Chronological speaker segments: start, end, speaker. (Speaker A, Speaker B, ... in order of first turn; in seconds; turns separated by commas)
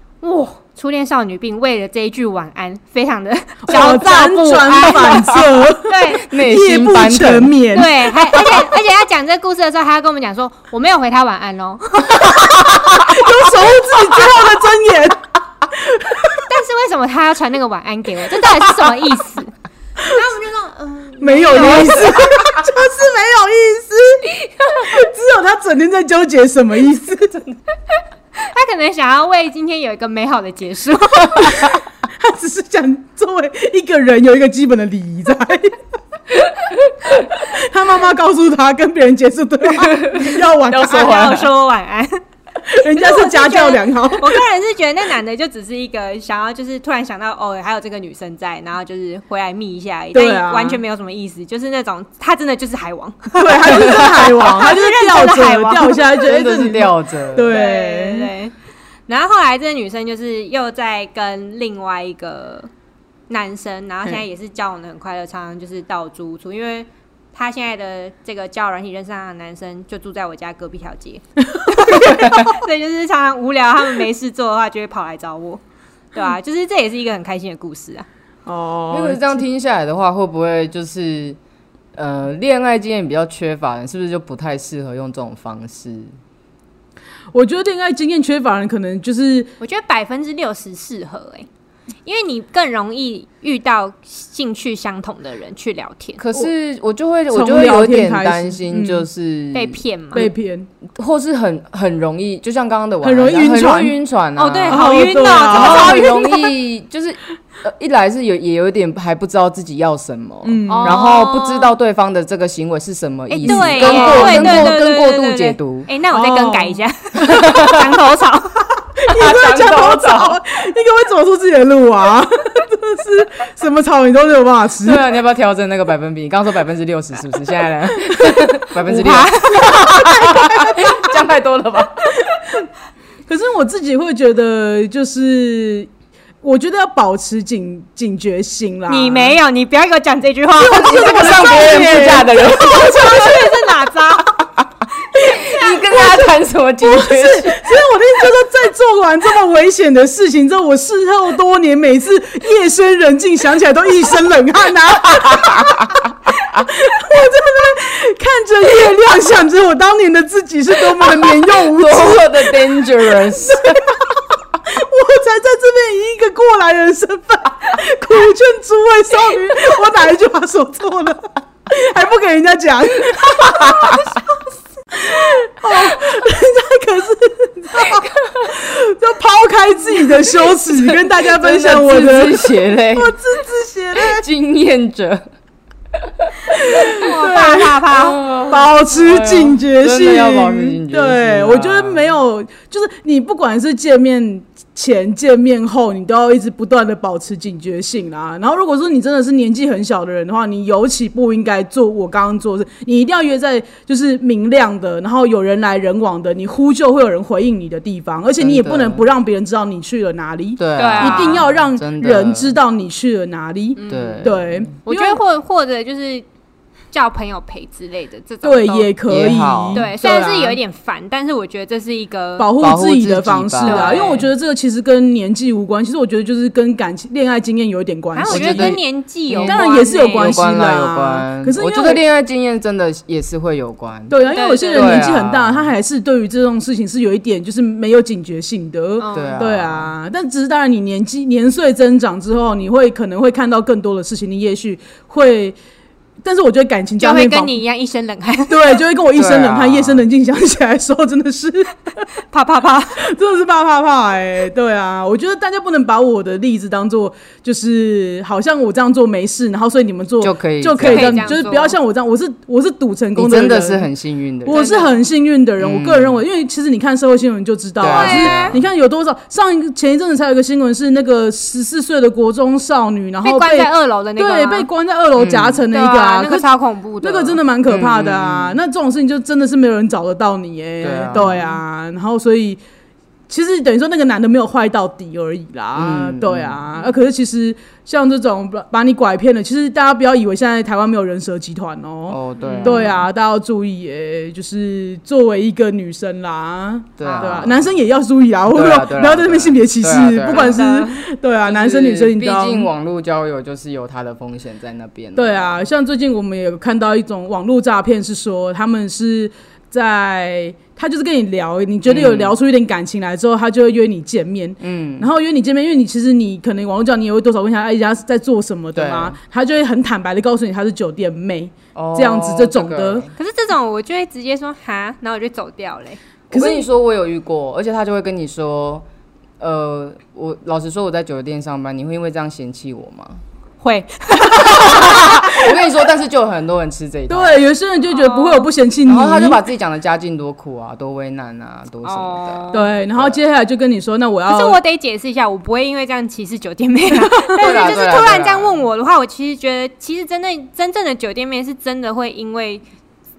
Speaker A: 0.2-6.2, Speaker B: 3.7-8.6, Speaker C: 6.1-7.6, Speaker A: 7.7-12.7, Speaker B: 12.1-16.5, Speaker A: 16.4-22.3, Speaker B: 21.2-27.4, Speaker A: 28.4-31.8, Speaker B: 31.3-35.8, Speaker B: 37.1-41.5, Speaker A: 40.7-42.2, Speaker B: 42.6-44.4, Speaker A: 42.9-56.1, Speaker B: 50.1-50.8, Speaker B: 53.4-58.3, Speaker C: 56.2-57.6, Speaker A: 57.5-58.5, Speaker A: 59.1-62.7, Speaker A: 63.3-75.6, Speaker B: 71.5-72.3, Speaker C: 72.1-72.4, Speaker A: 76.1-78.1, Speaker B: 78.5-79.3, Speaker C: 78.9-81.4, Speaker C: 82.0-86.1, Speaker B: 87.3-89.5, Speaker A: 89.6-91.5, Speaker A: 92.1-96.2, Speaker C: 96.2-100.3, Speaker B: 97.3-99.1, Speaker A: 99.5-100.3, Speaker B: 100.2-100.7, Speaker C: 101.0-115.9, Speaker B: 103.0-104.0, Speaker A: 104.4-106.5, Speaker B: 104.7-106.1, Speaker B: 110.4-111.0, Speaker A: 110.7-111.7, Speaker A: 113.3-118.6, Speaker B: 113.4-114.7, Speaker B: 116.1-117.7, Speaker C: 117.2-117.9, Speaker B: 119.0-125.0, Speaker C: 119.1-120.4, Speaker C: 124.8-132.2, Speaker A: 128.8-130.1, Speaker B: 129.5-131.1, Speaker B: 132.3-132.7, Speaker B: 133.3-135.9, Speaker B: 136.4-139.4, Speaker A: 138.9-141.9, Speaker B: 140.6-143.9, Speaker C: 140.6-143.3, Speaker A: 142.6-144.3, Speaker C: 144.4-147.8, Speaker B: 145.3-174.2, Speaker C: 155.1-156.7, Speaker C: 161.0-163.9, Speaker B: 174.9-184.2, Speaker C: 180.7-183.2, Speaker C: 184.0-185.2, Speaker C: 185.9-186.9, Speaker B: 186.5-187.9, Speaker A: 186.8-188.4, Speaker C: 187.8-192.0, Speaker B: 188.5-215.2, Speaker C: 208.4-209.0, Speaker C: 210.6-212.6, Speaker A: 210.8-211.4, Speaker A: 213.8-214.2, Speaker C: 213.9-214.7, Speaker A: 214.9-216.2, Speaker A: 216.9-218.9, Speaker B: 218.4-220.6, Speaker C: 219.1-219.9, Speaker A: 219.7-222.5, Speaker B: 222.4-228.8, Speaker C: 222.6-224.3, Speaker A: 223.6-224.3, Speaker A: 228.2-230.4, Speaker C: 228.3-234.2, Speaker B: 229.4-232.0, Speaker B: 234.1-245.6, Speaker A: 234.3-235.1, Speaker C: 234.7-235.7, Speaker A: 239.0-239.4, Speaker C: 239.1-239.9, Speaker B: 246.2-247.5, Speaker A: 247.0-248.8, Speaker B: 248.5-252.1, Speaker C: 249.2-250.1, Speaker A: 252.3-253.0, Speaker B: 253.0-263.9, Speaker C: 260.2-261.3, Speaker A: 260.8-261.8, Speaker C: 263.2-264.6, Speaker B: 264.4-276.5, Speaker A: 264.5-265.0, Speaker C: 265.6-266.2, Speaker C: 267.8-268.6, Speaker A: 267.9-268.6, Speaker A: 273.2-274.7, Speaker C: 275.2-275.6, Speaker A: 275.7-277.4, Speaker B: 277.0-282.6, Speaker C: 277.7-278.6, Speaker C: 280.8-281.4, Speaker A: 281.1-281.6, Speaker B: 283.3-302.7, Speaker C: 285.8-286.7, Speaker C: 292.1-293.0, Speaker A: 292.4-293.0, Speaker C: 297.0-297.7, Speaker A: 297.0-297.4, Speaker C: 298.5-300.6, Speaker A: 300.3-301.0, Speaker C: 301.5-305.7, Speaker B: 305.1-323.1, Speaker C: 311.9-312.4, Speaker C: 314.6-315.1, Speaker C: 318.8-319.2, Speaker C: 321.8-323.1, Speaker A: 323.2-326.0, Speaker B: 326.3-326.6, Speaker C: 326.3-328.9, Speaker C: 329.4-333.2, Speaker A: 333.6-335.3, Speaker B: 334.2-335.4, Speaker C: 334.6-337.4, Speaker B: 337.1-339.4, Speaker A: 337.9-338.5, Speaker C: 338.9-343.2, Speaker A: 341.8-342.7, Speaker B: 342.5-344.6, Speaker A: 344.3-352.6, Speaker C: 347.4-348.6